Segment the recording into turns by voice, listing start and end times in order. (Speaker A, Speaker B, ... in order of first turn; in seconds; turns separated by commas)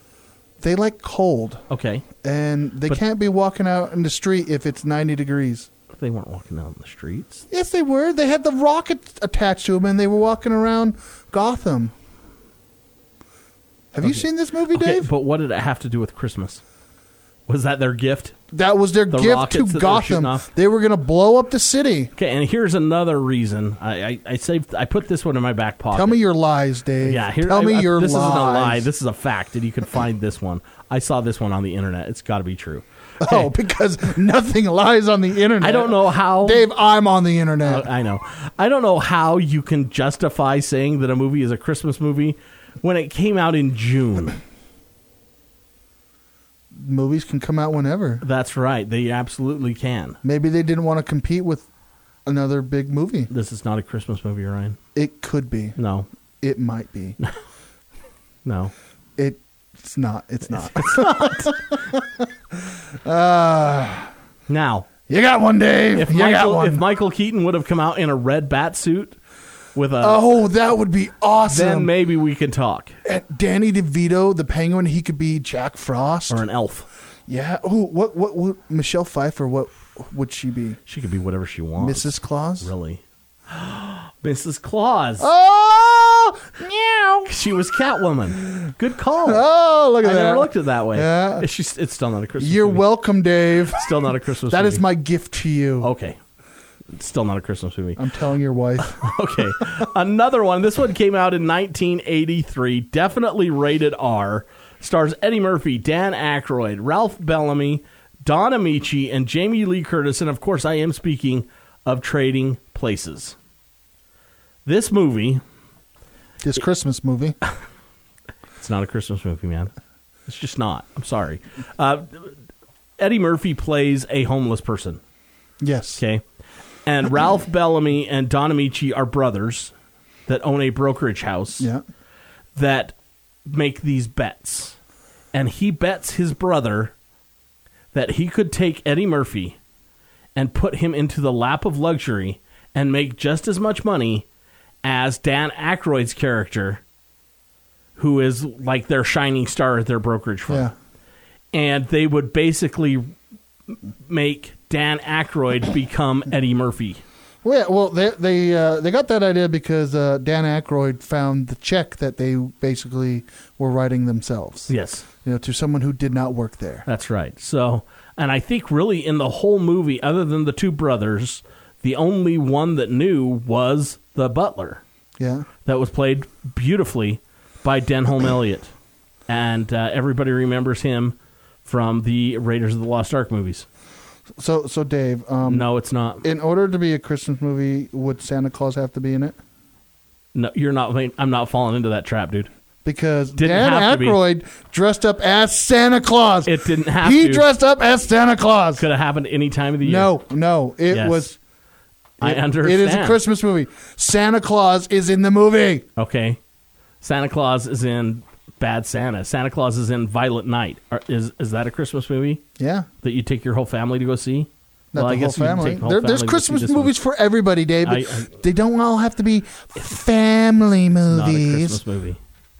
Speaker A: 0.6-1.6, Speaker B: 1.7-2.0, Speaker A: 2.1-5.7, Speaker B: 5.9-7.4, Speaker A: 7.5-11.9, Speaker A: 13.9-15.1, Speaker B: 14.0-16.6, Speaker B: 17.5-18.4, Speaker A: 18.5-22.1, Speaker B: 19.1-20.5, Speaker B: 22.1-26.2, Speaker A: 25.9-28.9, Speaker B: 27.0-33.5, Speaker A: 33.2-37.9, Speaker B: 35.6-36.6, Speaker B: 37.6-44.4, Speaker A: 46.7-48.2, Speaker B: 48.2-50.2, Speaker A: 50.2-51.6, Speaker A: 52.2-53.3, Speaker B: 53.3-54.8, Speaker A: 54.9-55.8, Speaker B: 55.8-56.1, Speaker A: 56.4-57.2, Speaker B: 58.4-58.7, Speaker A: 59.2-64.1, Speaker B: 60.5-61.5, Speaker B: 64.5-64.9, Speaker A: 65.1-66.8, Speaker B: 65.9-69.2, Speaker B: 69.7-70.3, Speaker A: 70.0-71.9, Speaker B: 71.5-72.9, Speaker A: 73.0-76.4, Speaker B: 76.3-76.9, Speaker A: 77.3-80.8, Speaker B: 80.9-85.3, Speaker A: 81.8-82.7, Speaker A: 85.2-87.3, Speaker B: 87.2-89.4, Speaker A: 89.2-91.5, Speaker B: 90.0-92.8, Speaker A: 92.4-93.9, Speaker B: 93.7-94.8, Speaker A: 94.5-95.9, Speaker B: 95.8-96.2, Speaker B: 96.9-98.0, Speaker A: 98.0-99.0, Speaker B: 98.8-113.3, Speaker B: 114.6-115.4, Speaker A: 116.4-117.3, Speaker B: 118.6-119.7, Speaker B: 120.3-122.3, Speaker B: 123.0-125.0, Speaker A: 125.6-126.0, Speaker B: 126.0-126.2, Speaker B: 126.8-129.7, Speaker B: 130.3-131.7, Speaker B: 132.6-132.9, Speaker B: 133.4-134.8, Speaker B: 135.3-136.9, Speaker B: 137.9-139.6, Speaker B: 140.3-144.2, Speaker B: 144.8-146.8, Speaker B: 148.0-150.7, Speaker A: 150.5-150.7, Speaker B: 151.5-153.1, Speaker B: 153.7-157.0, Speaker A: 157.4-164.7, Speaker B: 164.7-165.1, Speaker A: 165.2-166.8, Speaker B: 166.8-174.8, Speaker A: 175.2-175.5, Speaker B: 175.7-178.7, Speaker B: 179.3-183.7, Speaker A: 184.4-185.7, Speaker B: 185.4-186.2, Speaker A: 186.2-189.4, Speaker B: 190.3-192.5, Speaker A: 192.8-198.8, Speaker B: 193.3-194.2, Speaker B: 196.4-197.5, Speaker B: 198.8-200.1, Speaker A: 199.8-201.3, Speaker B: 200.9-201.3, Speaker B: 202.2-203.2, Speaker A: 202.2-205.8, Speaker B: 206.0-206.4, Speaker B: 207.0-212.4, Speaker A: 212.6-212.9, Speaker B: 213.0-216.9, Speaker A: 214.9-221.8, Speaker B: 217.8-218.3, Speaker B: 221.1-222.2